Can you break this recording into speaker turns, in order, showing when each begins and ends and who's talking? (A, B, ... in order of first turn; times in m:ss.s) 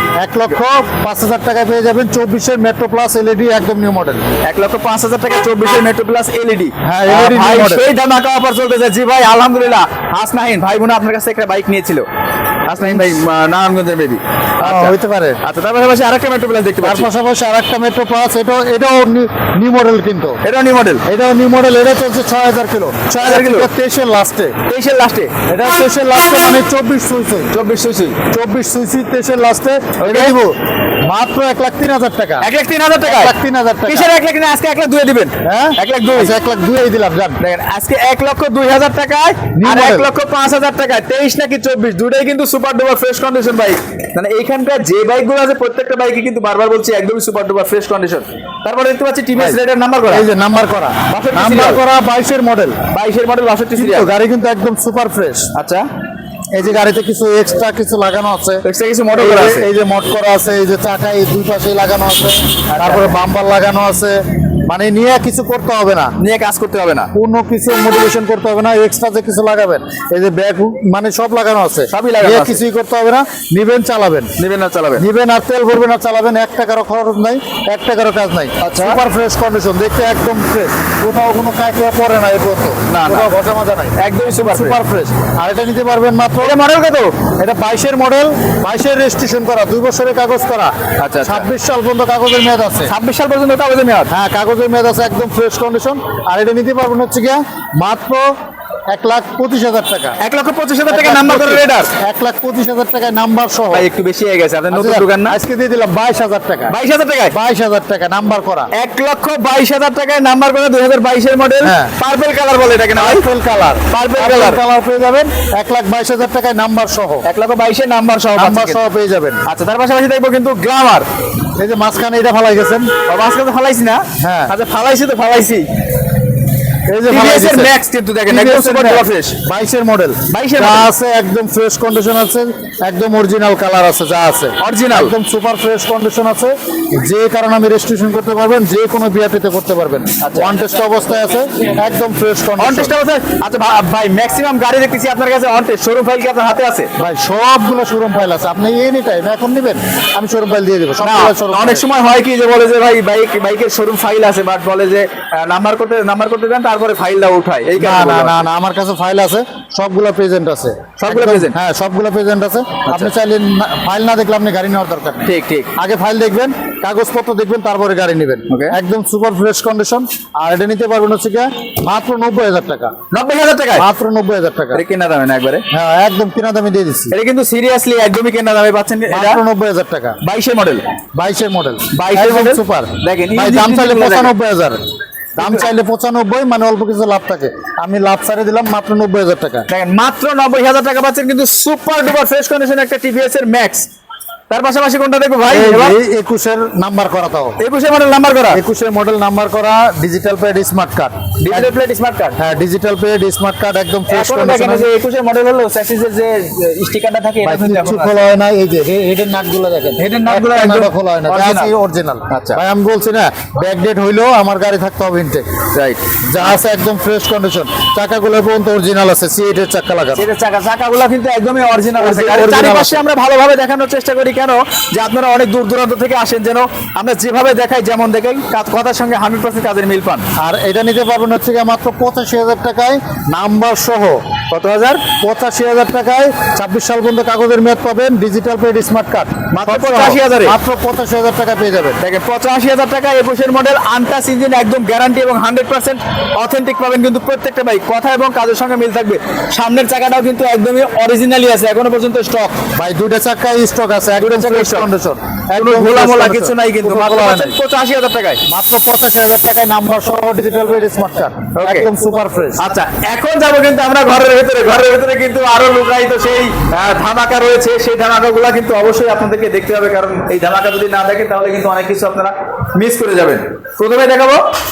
0:00.2-0:04.2 A
0:04.4-0:12.0 B
0:06.8-0:07.9 A
0:12.7-0:17.1 B
0:12.8-0:13.1 A
0:14.6-0:15.4 A
0:16.8-0:20.4 A
0:20.4-0:21.0 B
0:21.1-0:24.6 A
0:23.2-0:23.7 B
0:24.7-0:25.3 B
0:25.5-0:27.5 A
0:27.5-0:28.2 B
0:28.3-0:32.5 A
0:30.0-0:30.3 B
0:32.4-0:33.4 B
0:33.0-0:34.1 A
0:33.9-0:36.3 B
0:35.4-0:37.4 A
0:37.4-0:50.3 B
0:39.6-0:40.1 A
0:49.3-0:52.8 A
0:51.1-0:51.8 B
0:52.9-0:54.1 B
0:53.7-0:55.5 A
0:55.5-0:55.8 B
0:56.5-1:06.1 A
0:58.6-0:59.7 B
1:02.7-1:03.2 B
1:06.2-1:07.1 B
1:07.1-1:14.3 A
1:11.9-1:12.6 B
1:14.4-1:15.0 B
1:15.0-1:26.6 A
1:18.6-1:19.0 B
1:22.9-1:23.3 B
1:24.0-1:24.8 B
1:26.4-1:27.2 B
1:27.2-1:32.9 A
1:31.0-1:31.5 B
1:32.9-1:34.1 B
1:34.1-1:38.3 A
1:38.9-1:40.2 A
1:40.2-1:41.9 B
1:40.9-1:43.9 A
1:43.7-1:45.4 B
1:44.7-1:46.8 A
1:46.7-1:47.4 B
1:47.3-1:48.7 A
1:48.7-1:53.3 B
1:51.6-1:51.9 A
1:52.9-1:57.2 A
1:53.9-1:54.6 B
1:57.2-1:58.8 B
1:58.3-1:59.4 A
1:59.4-2:01.0 B
2:01.6-2:02.9 A
2:03.1-2:05.7 B
2:04.2-2:04.5 A
2:06.9-2:07.7 A
2:07.1-2:09.4 B
2:08.3-2:23.0 A
2:10.3-2:10.9 B
2:14.6-2:15.1 B
2:20.2-2:20.6 B
2:22.6-2:26.9 B
2:27.0-2:31.9 A
2:31.0-2:38.5 B
2:37.8-2:53.0 A
2:41.0-2:41.6 B
2:42.9-2:43.1 B
2:45.3-2:45.7 B
2:48.5-2:48.8 B
2:53.1-2:53.9 B
2:53.8-2:54.8 A
2:54.7-2:55.6 B
2:55.7-2:57.2 A
2:57.1-2:59.4 B
2:59.1-3:00.2 A
3:00.2-3:00.8 B
3:01.2-3:04.8 A
3:01.9-3:04.3 B
3:05.4-3:09.7 A
3:09.7-3:13.9 B
3:14.5-3:16.0 B
3:15.5-3:17.6 A
3:17.6-3:18.6 B
3:18.5-3:21.7 A
3:21.4-3:22.4 B
3:22.4-3:24.9 A
3:24.1-3:28.2 B
3:27.4-3:35.5 A
3:30.0-3:31.7 B
3:32.3-3:32.6 B
3:35.8-3:36.6 B
3:36.3-3:40.3 A
3:40.2-3:50.2 B
3:42.0-3:43.0 A
3:50.4-3:54.2 A
3:54.5-3:55.0 B
3:55.2-4:02.0 A
3:59.5-4:00.6 B
4:02.0-4:12.6 B
4:12.8-4:17.6 A
4:14.2-4:14.9 B
4:15.6-4:18.4 B
4:18.5-4:22.6 A
4:21.5-4:21.9 B
4:22.6-4:34.4 B